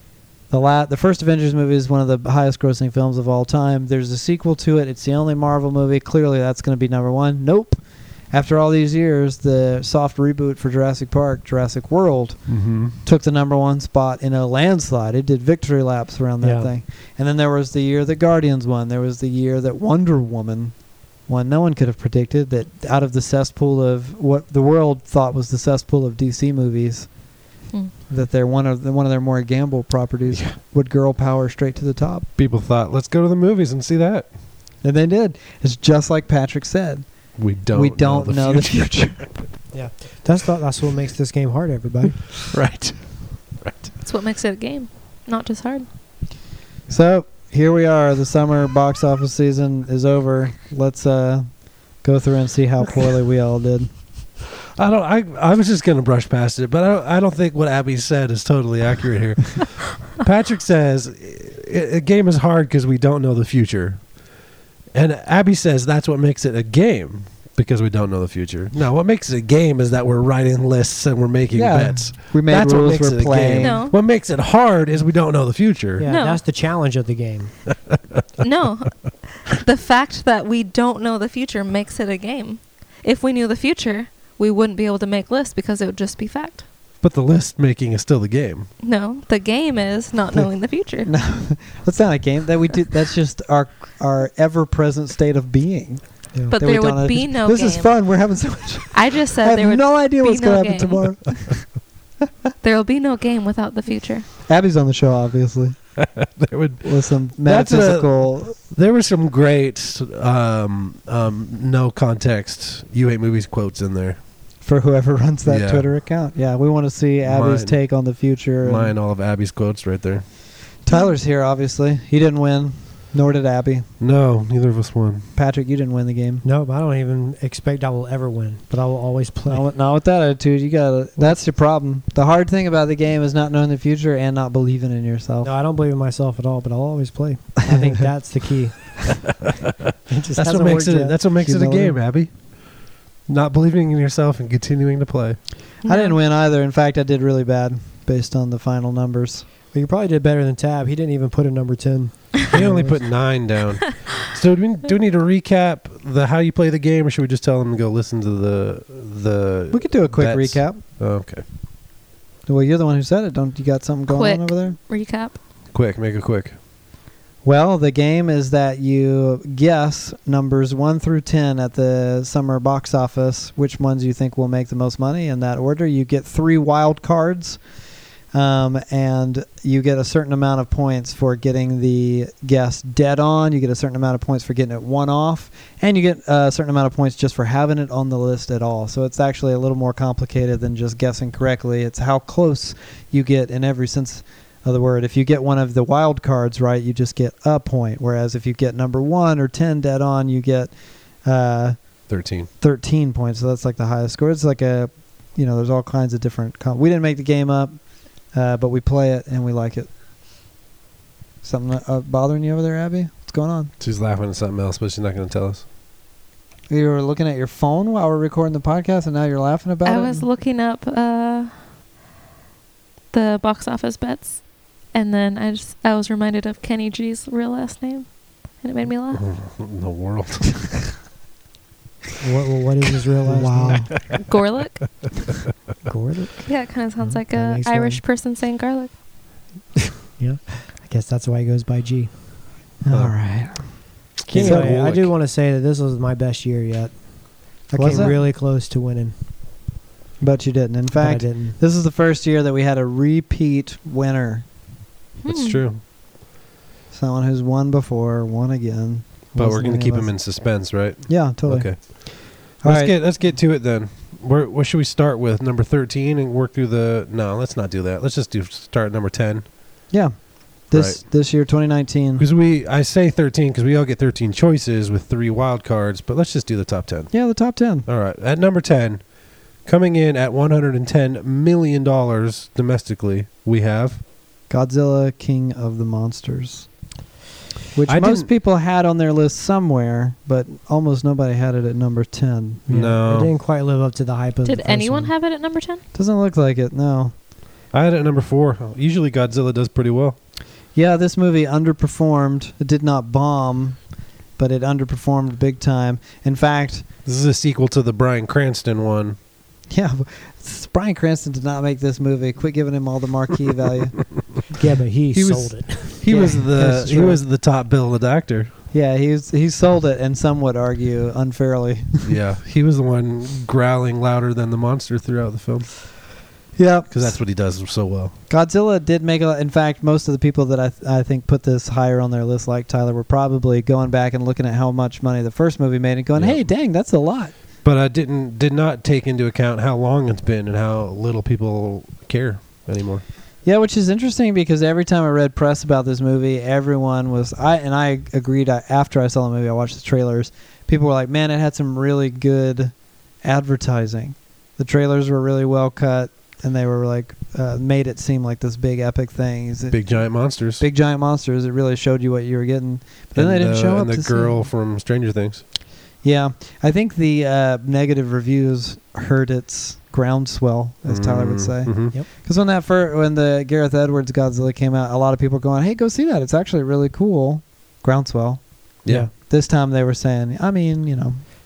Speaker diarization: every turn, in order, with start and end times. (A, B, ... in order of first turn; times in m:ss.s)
0:00.5-0:27.1 A
0:12.5-0:12.9 B
0:16.4-0:16.7 C
0:28.1-0:32.3 A
0:30.3-0:30.6 B
0:32.4-0:34.3 B
0:34.8-0:39.4 A
0:37.4-0:39.4 B
0:39.7-0:42.4 C
0:42.5-0:43.9 B
0:44.0-0:45.8 D
0:46.9-0:53.9 A
0:54.8-1:04.2 B
1:04.9-1:16.0 B
1:11.5-1:13.8 A
1:13.6-1:13.9 D
1:16.0-1:17.6 C
1:16.0-1:16.4 D
1:18.4-1:26.6 D
1:27.0-1:28.7 B
1:28.8-1:31.1 D
1:30.3-1:41.7 A
1:36.5-1:38.0 D
1:38.9-1:41.4 D
1:42.6-1:44.3 D
1:44.4-1:45.9 A
1:46.0-1:54.2 B
1:46.8-1:48.6 A
1:54.6-1:58.9 A
1:55.4-1:55.8 B
1:57.2-1:58.1 B
1:58.6-2:00.3 B
2:00.8-2:03.9 A
2:00.9-2:01.1 D
2:04.0-2:05.3 B
2:05.3-2:06.4 A
2:06.4-2:09.6 C
2:09.5-2:15.5 A
2:15.4-2:19.4 C
2:17.6-2:18.1 A
2:20.1-2:21.1 C
2:20.4-2:25.4 B
2:20.4-2:22.0 A
2:25.8-2:26.2 D
2:25.8-2:29.4 A
2:29.7-2:33.1 C
2:32.5-2:41.4 B
2:39.7-2:40.8 A
2:42.4-2:44.8 A
2:44.1-2:45.4 D
2:45.7-2:46.5 B
2:47.4-2:57.6 A
2:58.3-3:22.0 A
3:22.1-3:22.5 B
3:22.6-3:29.9 A
3:31.4-3:33.7 A
3:33.8-3:35.6 B
3:36.7-3:40.2 A
3:39.8-3:41.6 D
3:43.1-3:49.2 D
3:49.1-3:50.6 B
3:52.2-3:54.0 C
3:53.3-3:53.9 A
3:53.6-3:54.2 B
3:54.2-3:55.0 D
3:55.8-3:58.0 C
3:56.4-3:58.9 D
4:00.2-4:02.2 C
4:02.8-4:03.8 A
4:02.9-4:03.2 B
4:04.2-4:05.1 B
4:04.3-4:04.8 A
4:04.3-4:09.1 C
4:07.7-4:08.2 A
4:10.2-4:14.5 A
4:10.9-4:11.6 C
4:15.2-4:15.6 D
4:15.3-4:15.8 B
4:16.9-4:23.0 A
4:19.4-4:29.5 B
4:29.9-4:32.2 A
4:30.7-4:31.0 B
4:32.2-4:37.1 B
4:37.1-4:37.8 A
4:37.8-4:39.0 B
4:39.6-4:44.0 B
4:44.5-4:46.7 A
4:47.7-4:52.7 A
4:47.9-4:48.3 B
4:52.7-4:53.3 B
4:52.7-4:55.1 C
4:54.4-4:55.8 D
4:55.9-4:57.1 A
4:57.7-5:00.2 B
5:00.7-5:06.8 A
5:07.0-5:09.2 B
5:09.7-5:14.4 A
5:14.5-5:16.6 C
5:15.1-5:17.2 A
5:16.0-5:18.5 B
5:18.7-5:22.1 A
5:22.0-5:26.0 B
5:26.6-5:27.2 A
5:26.9-5:28.1 B
5:28.3-5:37.3 A
5:36.2-5:36.5 B
5:37.6-5:43.0 B
5:43.4-6:04.5 A
5:59.7-6:00.6 B
6:03.1-6:05.4 B
6:06.0-6:21.2 A
6:10.8-6:12.0 B
6:18.8-6:19.1 B